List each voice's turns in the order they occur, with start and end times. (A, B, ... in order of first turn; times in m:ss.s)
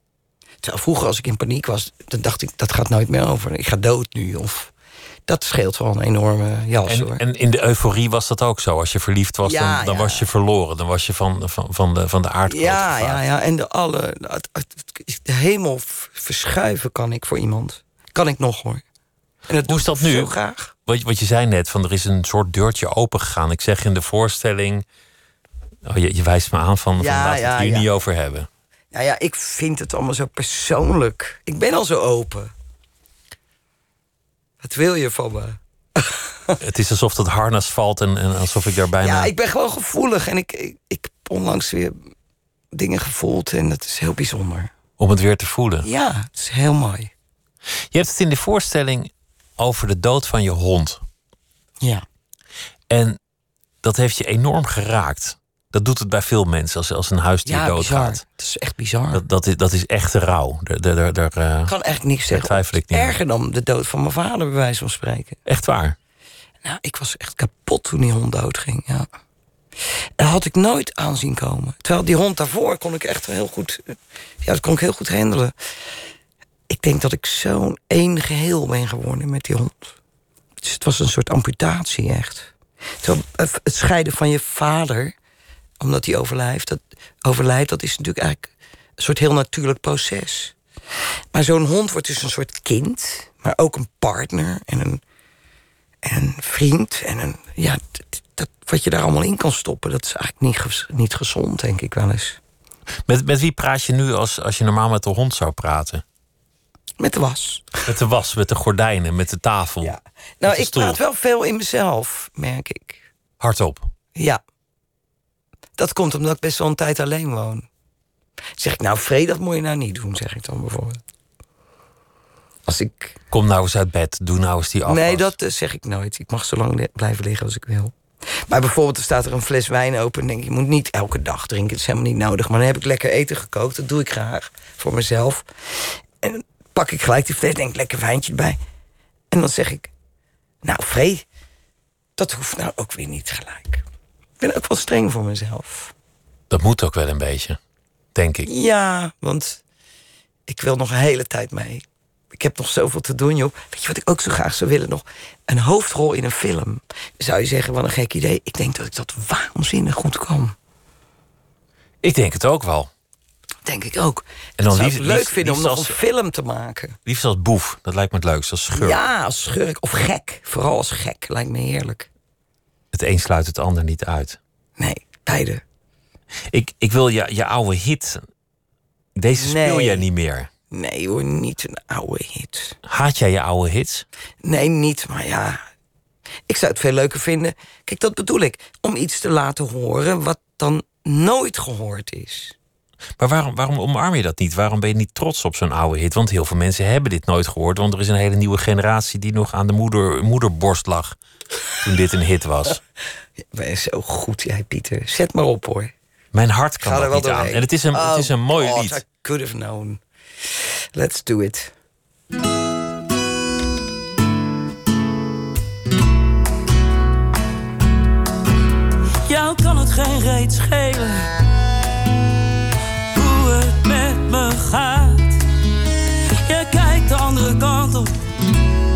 0:00.6-0:04.7 A
0:05.3-0:07.2 A
0:06.9-0:13.2 B
0:09.4-0:10.3 A
0:12.5-0:18.8 A
0:19.5-0:20.7 A
0:19.7-0:20.4 B
0:20.9-0:24.8 B
0:25.8-0:28.5 B
0:27.0-0:27.9 A
0:28.9-0:32.5 A
0:34.6-0:36.6 A
0:36.6-0:39.3 B
0:39.0-0:42.0 A
0:42.7-0:44.7 A
0:45.0-0:45.9 B
0:45.8-0:47.1 A
0:47.9-0:51.0 B
0:52.9-0:53.2 B
0:53.8-0:58.2 B
0:57.4-0:59.2 A
0:59.1-1:01.7 B
1:01.7-1:05.4 A
1:02.3-1:03.2 B
1:05.5-1:06.0 B
1:06.6-1:09.1 A
1:10.2-1:15.5 A
1:16.7-1:19.9 A
1:20.6-1:25.2 A
1:25.8-1:30.6 A
1:31.3-1:35.0 A
1:36.0-1:42.4 A
1:43.1-1:46.0 B
1:47.0-1:47.9 A
1:47.9-1:51.0 B
1:49.8-1:53.0 A
1:53.4-1:53.9 B
1:54.2-1:54.4 A
1:55.8-1:57.7 A
1:58.6-2:01.0 A
2:02.7-2:03.2 A
2:03.3-2:05.3 B
2:04.9-2:18.6 A
2:19.3-2:19.9 A
2:20.6-2:21.2 A
2:22.2-2:23.8 A
2:24.4-2:25.9 A
2:26.5-2:27.6 B
2:28.2-2:28.5 B
2:28.4-2:29.6 A
2:30.5-2:40.6 A
2:42.0-2:42.9 B
2:43.7-2:47.0 A
2:44.6-2:46.0 B
2:47.1-2:49.0 B
2:48.7-2:52.1 A
2:52.9-2:54.4 B
2:54.8-2:55.6 A
2:56.5-2:58.2 B
2:59.2-3:00.5 B
2:59.4-3:00.1 A
3:00.7-3:02.8 A
3:02.8-3:04.0 B
3:04.4-3:05.6 A
3:06.5-3:12.6 A
3:13.2-3:21.2 B
3:21.8-3:22.8 B
3:23.5-3:25.9 A
3:26.3-3:29.0 B
3:26.8-3:30.0 A
3:30.6-3:31.7 A
3:39.2-3:41.3 C
3:43.1-3:45.4 C
3:46.4-3:48.2 C